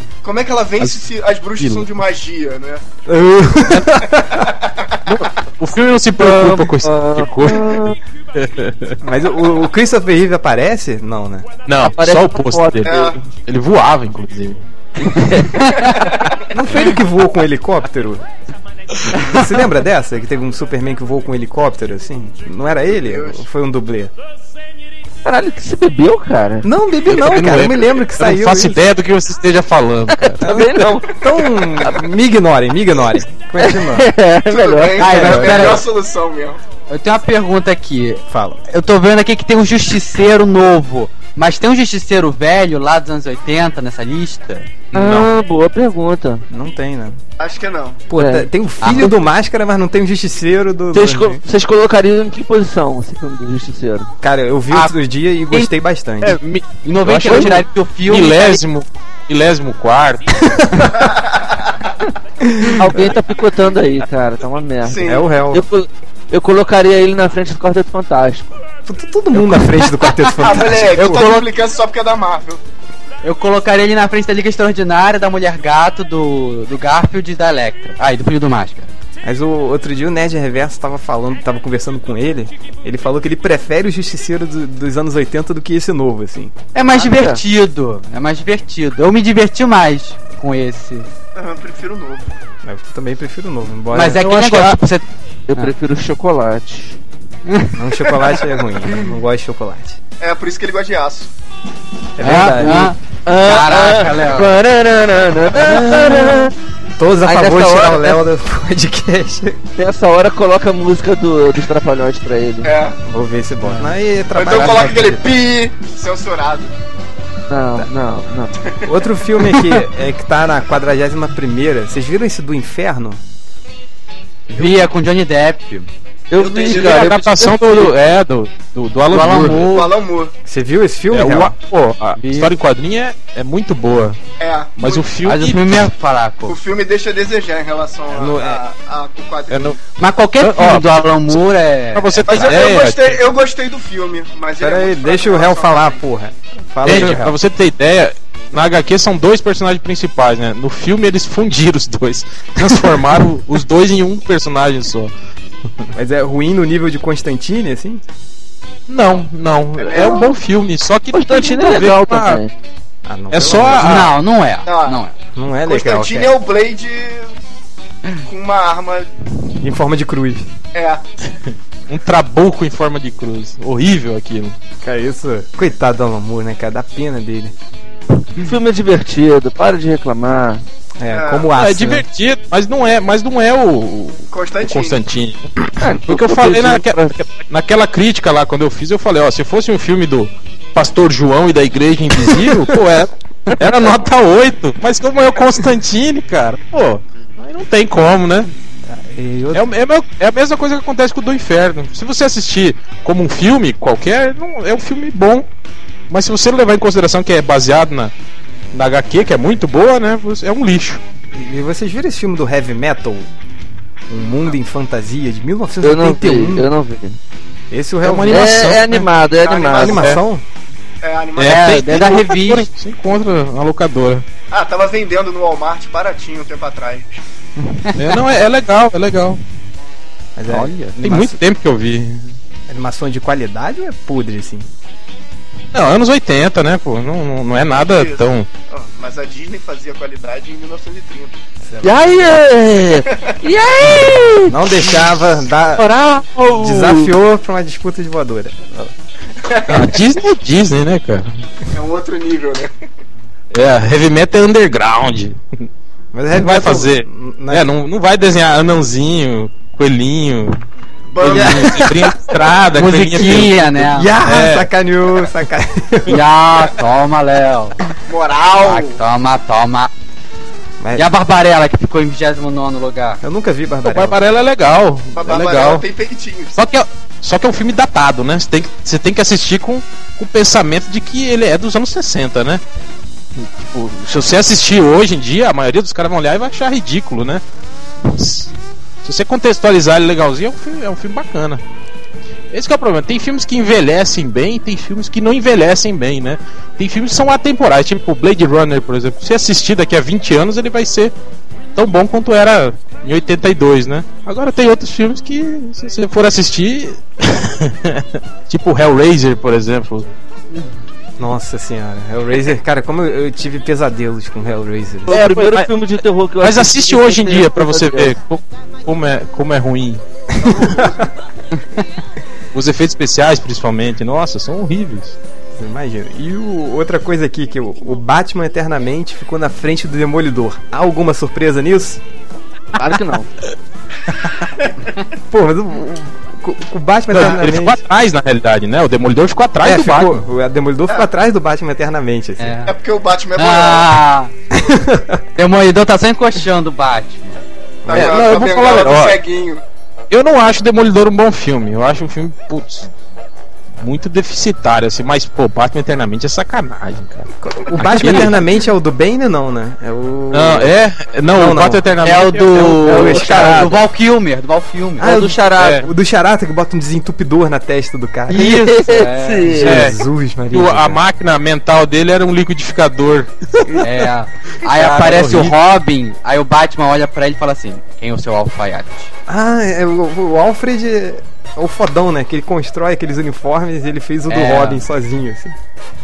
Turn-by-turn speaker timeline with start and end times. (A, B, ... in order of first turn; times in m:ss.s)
0:00.2-0:02.8 A
0:01.6-0:01.9 B
0:03.1-0:04.5 C
0:03.7-0:04.0 B
0:04.3-0:05.1 A
0:05.1-0:09.0 B
0:06.2-0:08.0 D
0:09.0-0:11.5 C
0:11.7-0:14.6 B
0:11.8-0:13.2 D
0:12.8-0:13.2 A
0:15.0-0:15.5 D
0:15.5-0:16.0 E
0:15.9-0:16.2 A
0:16.5-0:18.2 C
0:19.1-0:24.1 C
0:23.0-0:23.4 A
0:25.2-0:26.7 D
0:26.6-0:28.8 C
0:27.1-0:30.7 B
0:30.2-0:32.0 D
0:30.4-0:34.1 C
0:33.6-0:35.4 D
0:34.5-0:36.6 A
0:35.0-0:35.8 E
0:35.1-0:35.8 C
0:36.9-0:44.8 E
0:38.3-0:38.6 C
0:44.9-0:46.4 D
0:45.0-0:45.3 B
0:46.5-0:47.2 C
0:47.4-0:48.0 A
0:48.1-0:51.4 C
0:48.2-0:48.5 D
0:48.8-0:49.1 E
0:50.9-0:54.1 D
0:54.2-0:56.4 C
0:56.2-1:00.6 B
0:56.8-0:58.6 E
1:00.9-1:01.6 A
1:02.4-1:03.1 C
1:02.7-1:08.6 D
1:04.8-1:05.3 A
1:05.0-1:05.6 C
1:08.9-1:11.2 C
1:10.0-1:10.3 E
1:10.4-1:12.6 A
1:10.9-1:11.5 E
1:13.2-1:18.9 E
1:19.2-1:26.6 C
1:26.7-1:31.1 E
1:26.9-1:27.4 D
1:31.4-1:32.3 A
1:32.6-1:34.4 C
1:33.9-1:35.0 E
1:34.4-1:34.7 D
1:35.5-1:37.0 D
1:37.5-1:38.2 E
1:37.7-1:40.0 C
1:40.2-1:41.3 A
1:42.2-1:42.9 C
1:42.2-1:44.6 E
1:42.2-1:46.5 D
1:45.5-1:49.6 C
1:47.2-1:48.2 D
1:49.8-1:52.7 D
1:52.6-1:53.0 A
1:53.0-1:55.4 C
1:54.4-1:56.7 A
1:57.5-1:58.6 D
1:58.9-2:03.2 C
2:04.5-2:05.9 E
2:06.3-2:07.9 D
2:06.4-2:07.2 A
2:06.6-2:09.9 B
2:09.1-2:09.9 E
2:09.5-2:10.3 A
2:10.4-2:11.5 C
2:11.1-2:14.2 B
2:12.2-2:12.5 E
2:14.4-2:15.0 A
2:14.8-2:15.9 B
2:15.2-2:16.6 E
2:16.5-2:19.8 A
2:18.1-2:18.6 C
2:19.5-2:19.8 B
2:20.0-2:22.4 E
2:20.4-2:23.2 B
2:22.2-2:26.0 A
2:24.6-2:27.4 C
2:26.8-2:35.1 B
2:35.9-2:38.0 C
2:38.9-2:42.4 B
2:39.8-2:40.3 A
2:41.1-2:42.5 D
2:43.0-2:44.1 C
2:43.3-2:44.2 B
2:43.8-2:45.1 E
2:44.6-2:45.0 A
2:45.4-2:46.3 C
2:45.6-2:47.3 A
2:48.2-2:49.1 A
2:49.6-2:50.5 C
2:50.7-2:51.0 A
2:51.9-2:54.6 B
2:54.8-2:57.5 C
2:58.4-3:00.6 D
3:01.0-3:02.0 C
3:01.1-3:01.5 A
3:01.6-3:05.5 B
3:04.3-3:05.0 A
3:05.8-3:07.2 D
3:06.1-3:18.5 B
3:18.9-3:19.7 C
3:19.5-3:25.5 B
3:26.1-3:28.1 B
3:28.7-3:31.0 B
3:31.3-3:33.3 C
3:34.1-3:36.7 C
3:34.2-3:34.5 A
3:35.8-3:37.2 D
3:37.7-3:38.9 C
3:38.0-3:39.0 B
3:38.3-3:40.1 D
3:39.4-3:40.1 A
3:39.7-3:40.4 C
3:40.0-3:40.2 B
3:41.0-3:41.9 A
3:41.4-3:44.2 B
3:41.4-3:42.7 E
3:44.5-3:47.2 A
3:48.0-3:49.4 B
3:50.4-3:51.4 C
3:50.5-3:52.4 B
3:52.7-3:54.7 C
3:55.7-3:58.5 B
3:57.7-4:01.4 A
4:01.7-4:02.2 C
4:01.8-4:04.9 D
4:03.0-4:03.3 A
4:04.5-4:05.9 C
4:05.8-4:07.1 D
4:06.6-4:08.9 C
4:09.4-4:09.9 A
4:09.7-4:11.3 B
4:11.7-4:12.7 A
4:13.5-4:15.4 B
4:16.1-4:17.7 C
4:16.4-4:20.6 B
4:21.1-4:21.9 A
4:21.2-4:24.7 B
4:21.3-4:22.1 C
4:22.7-4:24.2 E
4:23.8-4:26.2 C
4:26.1-4:27.8 E
4:28.1-4:29.0 A
4:28.6-4:29.9 E
4:30.8-4:31.1 C
4:31.0-4:33.2 E
4:33.2-4:34.2 C
4:33.8-4:35.8 B
4:35.2-4:36.6 A
4:36.6-4:42.6 B
4:43.4-4:47.4 B
4:48.0-4:48.5 B
4:49.0-4:51.6 B
4:52.5-5:01.1 B
5:01.8-5:10.1 B
5:11.2-5:15.2 C
5:15.1-5:18.1 D
5:15.1-5:15.7 B
5:16.4-5:20.0 B
5:20.4-5:21.1 C
5:22.5-5:25.2 B
5:25.6-5:32.0 C
5:32.8-5:33.3 D
5:35.3-5:37.8 C
5:37.1-5:40.2 B
5:39.6-5:42.6 C
5:42.4-5:42.7 E
5:42.7-5:44.0 A
5:43.4-5:44.3 E
5:44.5-5:45.2 C
5:45.4-5:47.4 E
5:47.8-5:49.6 A
5:47.9-5:48.2 C
5:47.9-5:49.2 B
5:50.1-5:52.9 B
5:53.8-5:58.4 B
5:57.4-6:00.7 C
6:00.3-6:03.8 B
6:01.3-6:01.8 C
6:02.0-6:05.2 E
6:02.9-6:03.7 D
6:03.2-6:03.5 C
6:05.0-6:05.9 D
6:05.0-6:08.7 C
6:05.6-6:05.9 B
6:08.3-6:09.6 E
6:08.6-6:09.8 D
6:09.4-6:11.0 C
6:09.6-6:10.0 B
6:10.5-6:14.0 B
6:13.8-6:19.1 E
6:14.8-6:15.5 B
6:14.8-6:15.5 C
6:19.3-6:25.6 C
6:24.3-6:24.8 E